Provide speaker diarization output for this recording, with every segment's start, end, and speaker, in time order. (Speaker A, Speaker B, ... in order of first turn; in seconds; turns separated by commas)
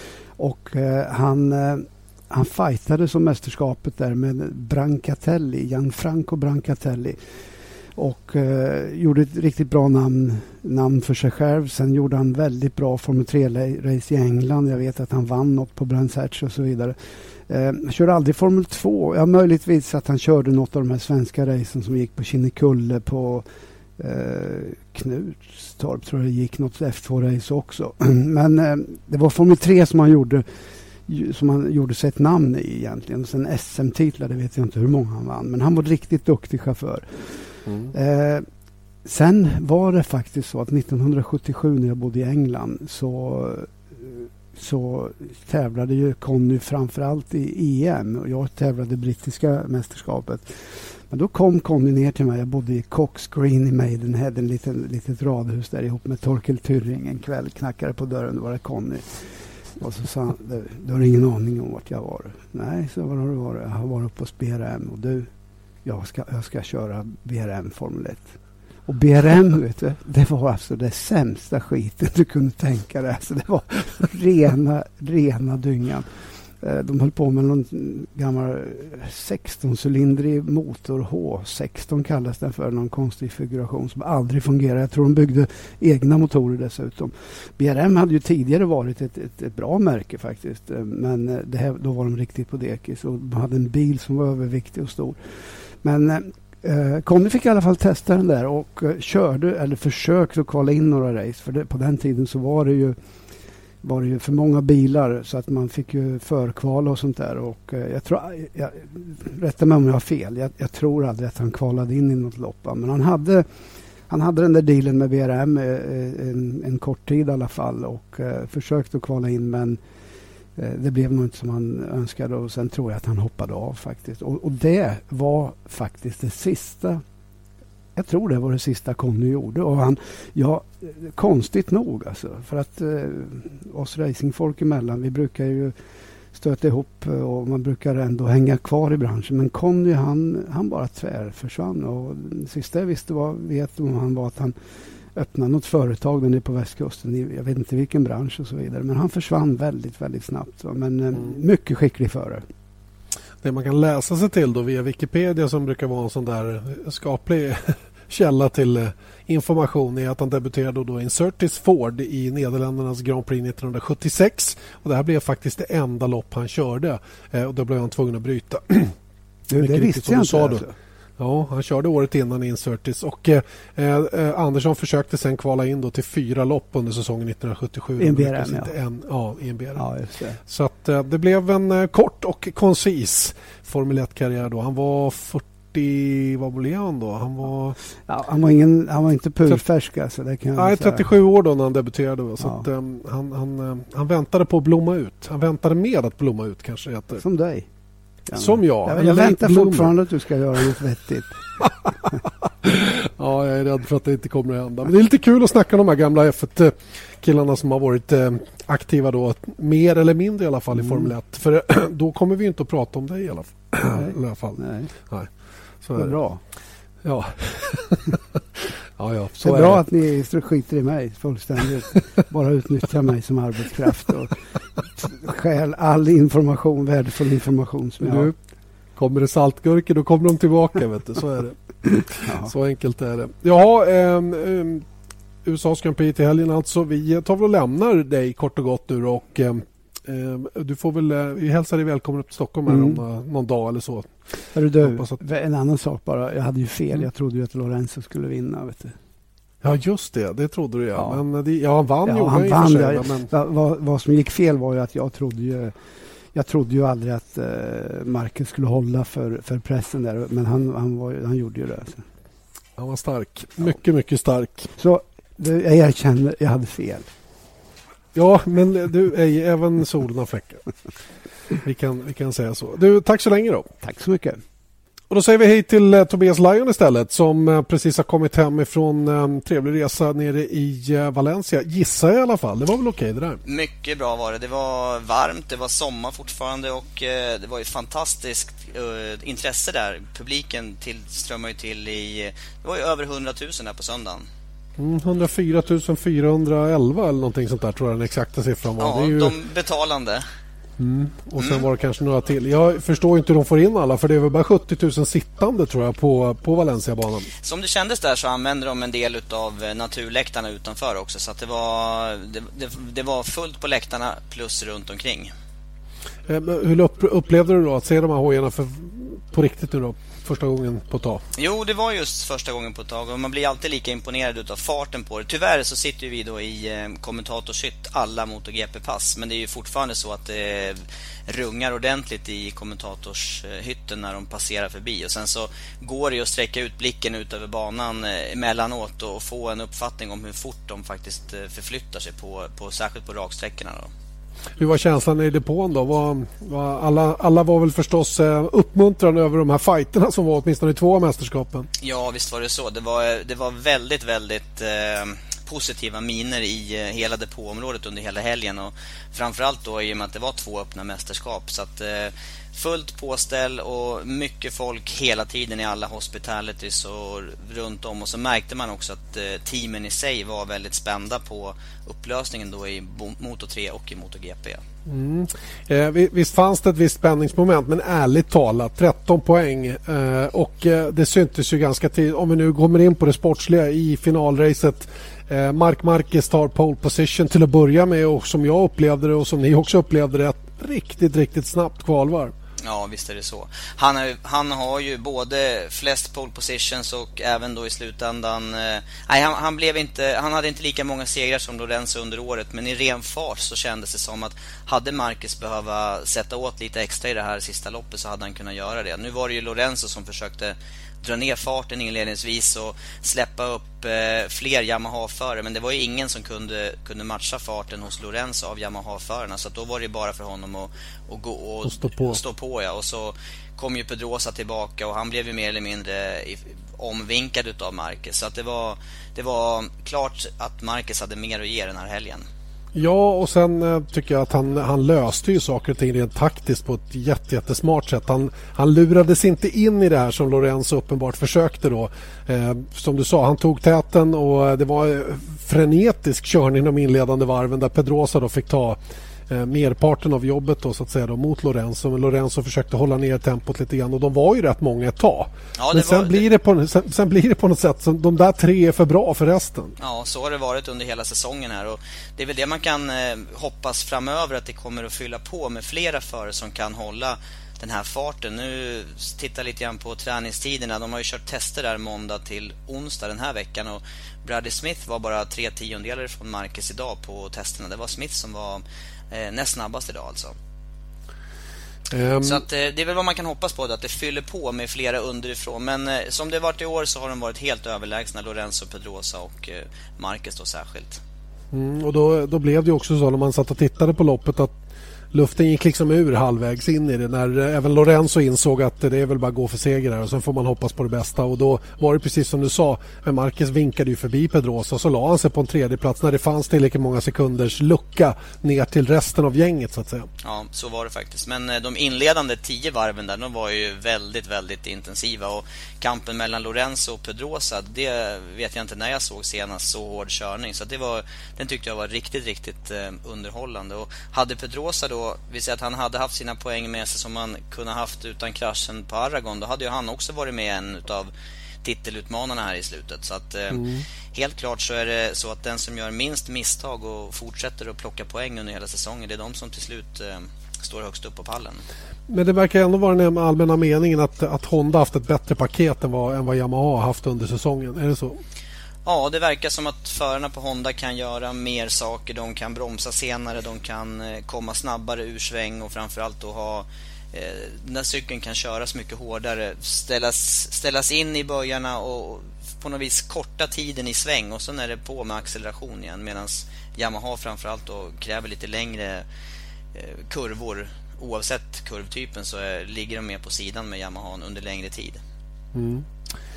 Speaker A: 0.4-7.2, Speaker A: 8.0-17.0, Speaker A: 17.5-23.5, Speaker A: 24.0-30.4, Speaker A: 31.1-37.4, Speaker B: 37.7-37.9, Speaker A: 37.9-38.5, Speaker A: 39.0-50.5, Speaker A: 51.1-59.3, Speaker A: 59.8-65.3, Speaker A: 65.8-68.3, Speaker A: 68.9-76.1, Speaker A: 76.6-95.2, Speaker A: 95.8-103.0, Speaker A: 103.8-113.5, Speaker A: 114.1-119.8, Speaker A: 120.6-127.0, Speaker A: 128.0-135.7, Speaker A: 136.3-144.5, Speaker A: 145.2-152.4, Speaker B: 153.4-168.9, Speaker A: 169.5-170.7, Speaker B: 169.6-170.6, Speaker B: 171.2-179.8, Speaker A: 178.0-178.7, Speaker A: 179.8-180.4, Speaker B: 180.5-187.8, Speaker A: 188.1-191.1, Speaker B: 190.6-197.2, Speaker A: 192.4-192.7, Speaker A: 197.2-197.7, Speaker A: 198.3-201.4, Speaker B: 198.3-199.9, Speaker B: 202.6-215.3, Speaker A: 214.0-214.9, Speaker B: 215.8-216.2, Speaker A: 216.0-216.4, Speaker B: 217.0-219.8, Speaker A: 219.4-224.4, Speaker A: 225.0-228.3, Speaker B: 228.0-228.3, Speaker B: 229.0-231.6, Speaker A: 231.9-232.5, Speaker B: 232.2-234.8, Speaker B: 235.4-244.1, Speaker A: 242.7-243.0, Speaker A: 244.5-248.9, Speaker B: 244.8-245.2, Speaker B: 249.6-253.3, Speaker A: 252.1-255.7, Speaker A: 256.3-262.0, Speaker B: 262.8-264.7, Speaker A: 264.8-267.1, Speaker B: 268.1-270.6, Speaker B: 271.6-273.7, Speaker A: 273.8-274.4, Speaker B: 275.1-283.4, Speaker C: 283.4-294.3, Speaker B: 294.8-299.4, Speaker C: 298.8-300.3, Speaker B: 300.8-307.3, Speaker C: 301.4-301.6, Speaker C: 307.4-315.3, Speaker B: 316.3-321.2, Speaker C: 321.4-343.9, Speaker B: 344.6-351.7, Speaker C: 351.8-374.6, Speaker B: 374.9-392.3, Speaker C: 392.6-432.2, Speaker B: 421.6-422.2, Speaker B: 432.8-448.8, Speaker B: 449.3-459.8, Speaker C: 455.6-456.2, Speaker C: 459.8-480.4, Speaker B: 481.9-482.4, Speaker C: 482.2-491.0, Speaker B: 491.5-494.6, Speaker B: 495.1-510.1, Speaker C: 510.2-531.1, Speaker C: 531.6-541.6, Speaker B: 533.5-533.8, Speaker B: 542.1-548.2, Speaker C: 548.9-569.1, Speaker C: 569.7-575.0, Speaker B: 575.5-575.9